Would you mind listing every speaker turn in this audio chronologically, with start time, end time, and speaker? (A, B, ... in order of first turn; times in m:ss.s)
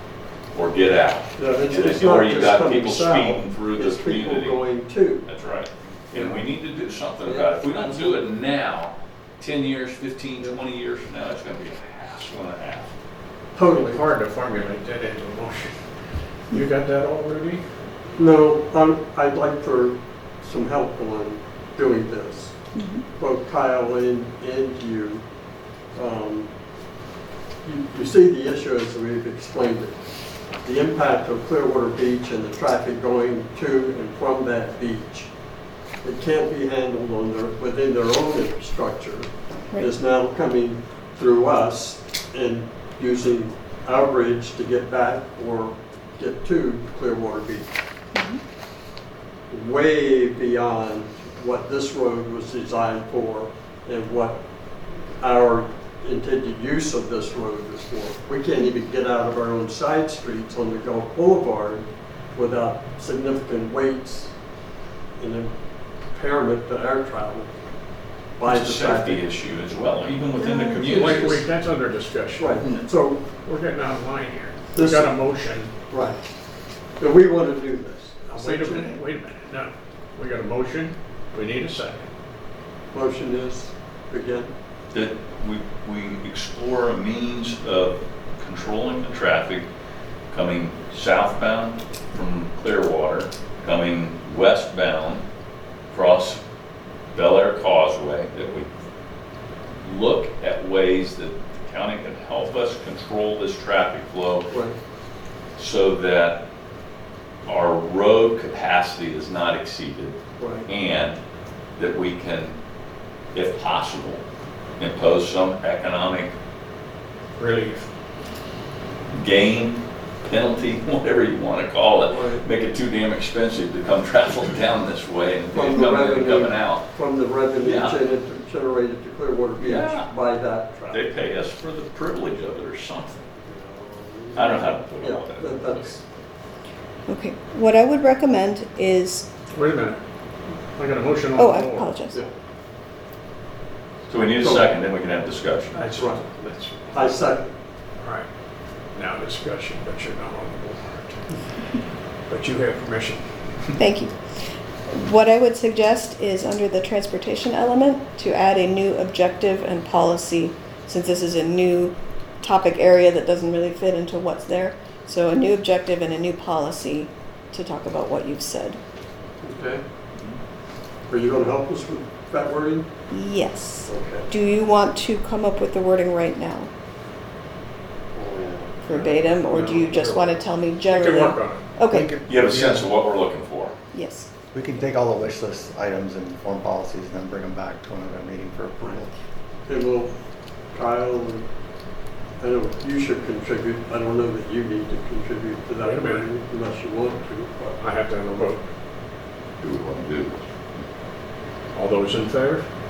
0:00.5-0:04.6 A
0:01.4-0:05.2 B
0:05.2-0:12.9 A
0:06.1-0:06.4 B
0:07.2-0:08.2 B
0:13.5-0:14.0 B
0:13.8-0:15.8 C
0:16.5-0:17.6 C
0:18.2-0:22.5 B
0:22.7-0:23.0 D
0:23.2-0:25.2 B
0:25.9-0:26.5 B
0:27.6-0:30.0 B
0:30.6-0:35.3 B
0:36.0-0:47.7 B
0:48.1-0:48.4 D
0:49.5-0:54.4 B
0:55.2-1:04.3 B
1:05.2-1:05.5 B
1:06.1-1:07.5 B
1:08.4-1:09.2 B
1:08.4-1:11.4 A
1:10.4-1:10.9 D
1:10.5-1:12.7 C
1:12.4-1:13.2 B
1:13.4-1:15.7 C
1:14.7-1:15.1 B
1:15.9-1:16.2 B
1:17.0-1:19.0 B
1:18.4-1:22.1 C
1:22.9-1:24.5 B
1:24.9-1:29.6 A
1:30.3-1:35.2 A
1:35.9-1:36.4 A
1:37.1-1:38.7 A
1:39.8-1:44.5 A
1:44.5-1:44.7 B
1:45.6-1:46.4 A
1:47.4-1:51.2 A
1:50.4-1:50.7 B
1:51.8-1:52.6 A
1:53.3-1:54.2 A
1:54.8-1:56.3 A
1:57.4-1:57.9 C
1:59.1-2:06.8 A
2:02.1-2:02.4 B
2:05.5-2:11.0 B
2:07.6-2:08.0 A
2:09.6-2:10.1 A
2:10.9-2:13.3 A
2:13.4-2:16.0 B
2:14.3-2:16.0 A
2:17.1-2:19.3 D
2:19.5-2:20.0 C
2:20.7-2:21.9 C
2:21.4-2:22.2 D
2:24.1-2:25.8 A
2:24.4-2:24.7 B
2:25.7-2:27.2 C
2:25.9-2:26.2 B
2:26.9-2:27.5 B
2:28.0-2:28.3 C
2:28.9-2:31.2 C
2:32.3-2:33.8 C
2:33.8-2:34.1 D
2:34.9-2:48.8 D
2:49.4-2:49.8 B
2:51.1-2:52.9 B
2:53.1-2:56.7 D
2:53.9-2:54.3 B
2:58.1-3:00.5 B
2:58.8-3:02.2 D
3:00.9-3:01.7 C
3:01.9-3:02.9 E
3:02.2-3:03.7 A
3:03.9-3:04.3 D
3:04.5-3:09.1 E
3:09.7-3:10.1 B
3:10.7-3:11.4 B
3:12.4-3:17.8 B
3:15.8-3:16.3 C
3:17.8-3:18.7 C
3:19.6-3:20.4 A
3:21.7-3:22.6 C